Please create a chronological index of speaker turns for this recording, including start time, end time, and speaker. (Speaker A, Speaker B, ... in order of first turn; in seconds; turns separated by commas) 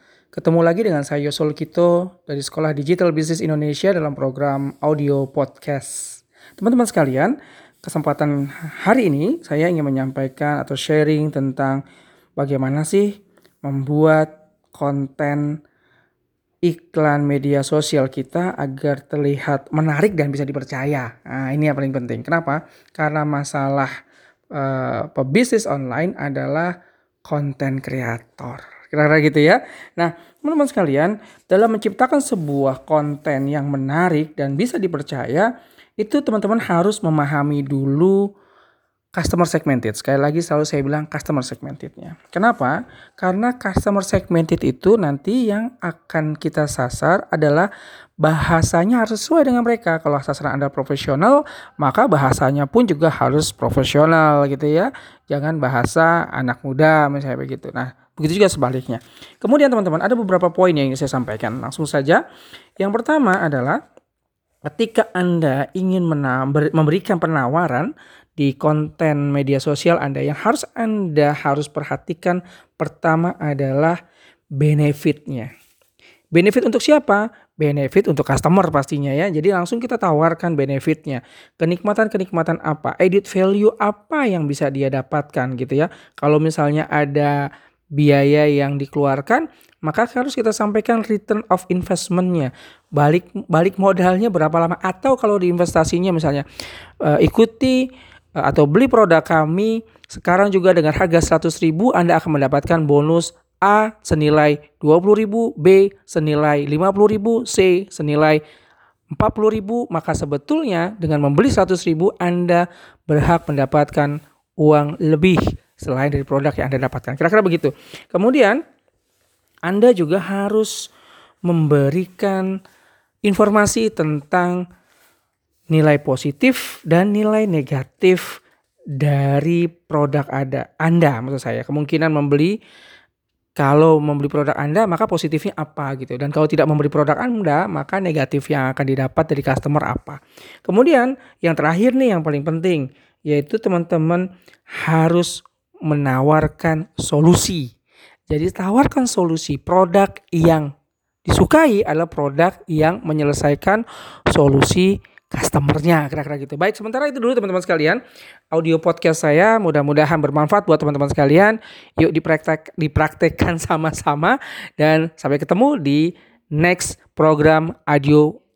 Speaker A: 0.3-11.8, Speaker A: 12.4-13.1, Speaker A: 13.6-15.5, Speaker A: 16.6-23.9, Speaker A: 24.5-26.7, Speaker A: 27.3-38.2, Speaker A: 39.1-47.7, Speaker A: 48.2-62.2, Speaker A: 62.8-63.8, Speaker A: 64.6-74.0, Speaker A: 74.6-75.5, Speaker A: 76.3-96.4, Speaker A: 97.0-97.9, Speaker A: 98.4-108.4, Speaker A: 109.1-118.6, Speaker A: 119.7-120.7, Speaker A: 121.5-122.5, Speaker A: 123.2-124.6, Speaker A: 125.7-128.3, Speaker A: 129.0-132.5, Speaker A: 133.6-144.2, Speaker A: 144.8-147.7, Speaker A: 148.3-150.7, Speaker A: 151.2-158.0, Speaker A: 158.5-168.3